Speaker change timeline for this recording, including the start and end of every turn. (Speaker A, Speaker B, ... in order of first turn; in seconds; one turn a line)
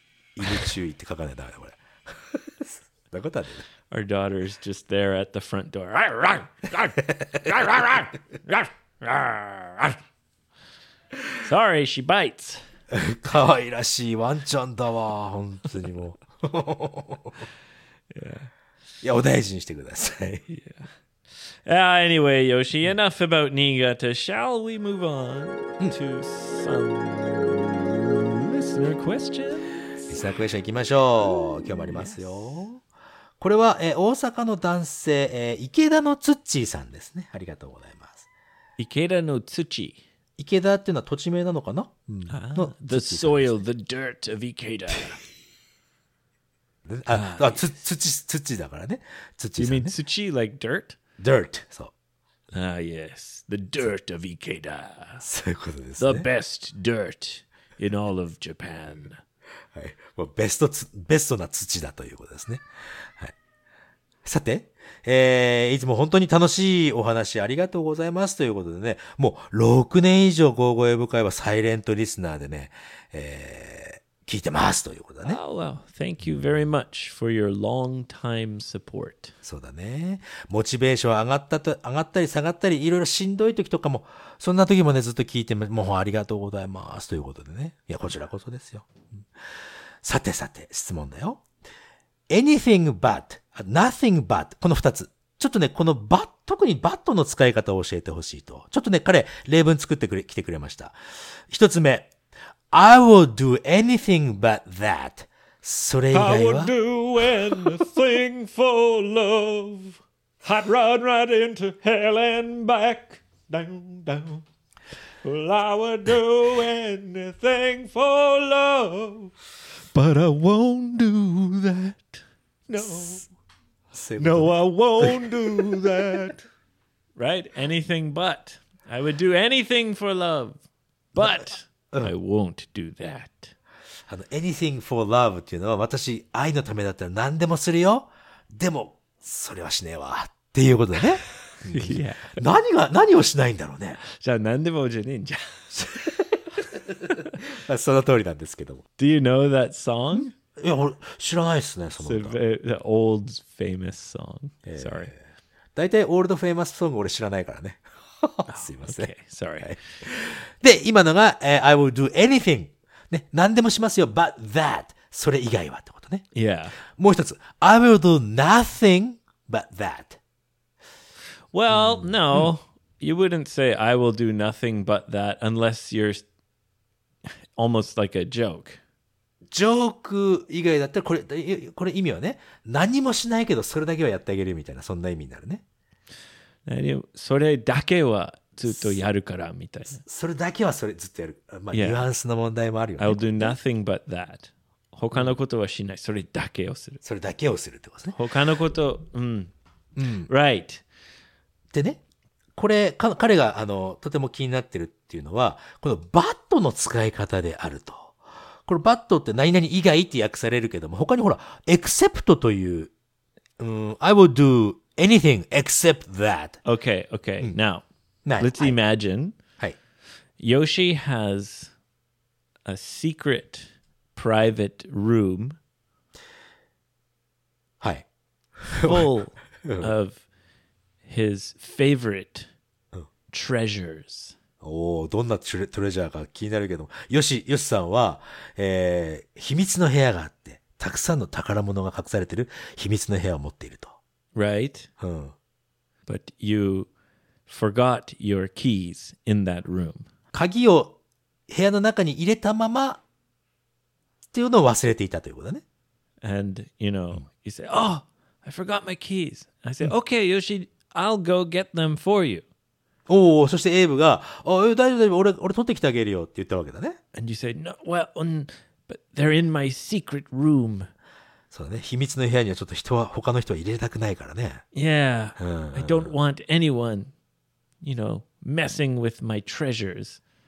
Speaker A: 0.3-3.6
Speaker B: 3.9-10.0
Speaker B: 11.4-12.6
Speaker A: 12.9-17.4
Speaker B: 18.1-18.5
Speaker A: 19.0-20.5
Speaker B: 20.5-20.9
Speaker B: 21.6-29.7
Speaker A: 30.1-32.8
Speaker B: 31.9-32.6
Speaker A: 33.4-38.2
Speaker B: 38.8-40.0
Speaker A: 40.4-43.6
Speaker B: 42.3-45.2
Speaker A: 46.8-49.9
Speaker B: 47.1-47.7
Speaker B: 49.6-51.0
Speaker A: 51.2-51.9
Speaker B: 52.5-55.2
Speaker A: 55.2-56.2
Speaker B: 56.0-59.2
Speaker A: 59.7-63.3
Speaker A: 64.2-75.4
Speaker B: 75.2-79.3
Speaker A: 79.4-89.2
Speaker A: 90.0-91.4
Speaker A: 92.3-101.0
Speaker A: 101.5-102.1
Speaker A: 102.7-106.7
Speaker B: 106.1-114.4
Speaker B: 115.2-119.3
Speaker B: 119.9-123.2
Speaker A: 122.8-123.2
Speaker A: 123.9-126.3
Speaker B: 124.2-126.4
Speaker B: 127.2-130.6
Speaker B: 131.1-133.5
Speaker A: 131.2-132.1
Speaker A: 134.1-144.0
Speaker B: 141.5-142.4
Speaker B: 144.0-145.8
Speaker A: 145.8-148.8
Speaker B: 147.1-147.4
Speaker B: 149.0-150.3
Speaker A: 150.1-152.4
Speaker B: 152.0-155.1
Speaker A: 154.7-155.2
Speaker A: 155.7-166.2
Speaker B: 158.5-159.8
Speaker B: 166.3-166.8
Speaker A: 166.8-170.2
Speaker B: 171.5-176.2
Speaker A: 171.7-172.5
Speaker B: 177.6-178.8
Speaker A: 179.5-185.6
Speaker B: 186.7-190.0
Speaker A: 188.7-189.0
Speaker A: 190.0-193.6
Speaker B: 191.7-192.0
Speaker B: 193.0-197.0
Speaker A: 197.0-198.2
Speaker B: 198.1-199.5
Speaker A: 199.9-200.3
Speaker B: 200.3-200.8
Speaker A: 201.7-202.0
Speaker A: 202.6-212.9
Speaker A: 213.6-216.6
Speaker B: 216.6-217.8
Speaker A: 218.2-218.8
Speaker B: 218.4-219.3
Speaker B: 220.4-221.7
Speaker B: 222.7-225.6
Speaker A: 227.8-228.1
Speaker A: 228.6-229.1
Speaker B: 228.8-230.2
Speaker A: 229.6-229.9
Speaker B: 231.0-232.5
Speaker B: 233.3-234.3
Speaker A: 234.6-244.0
Speaker B: 244.3-244.9
Speaker A: 245.0-245.3
Speaker B: 246.1-246.9
Speaker B: 247.5-250.1
Speaker A: 250.3-253.0
Speaker A: 254.3-255.6
Speaker B: 256.2-262.4
Speaker A: 263.1-267.0
Speaker B: 267.1-270.9
Speaker A: 271.5-274.6
Speaker B: 274.7-277.1
Speaker A: 275.4-276.1
Speaker B: 277.8-280.2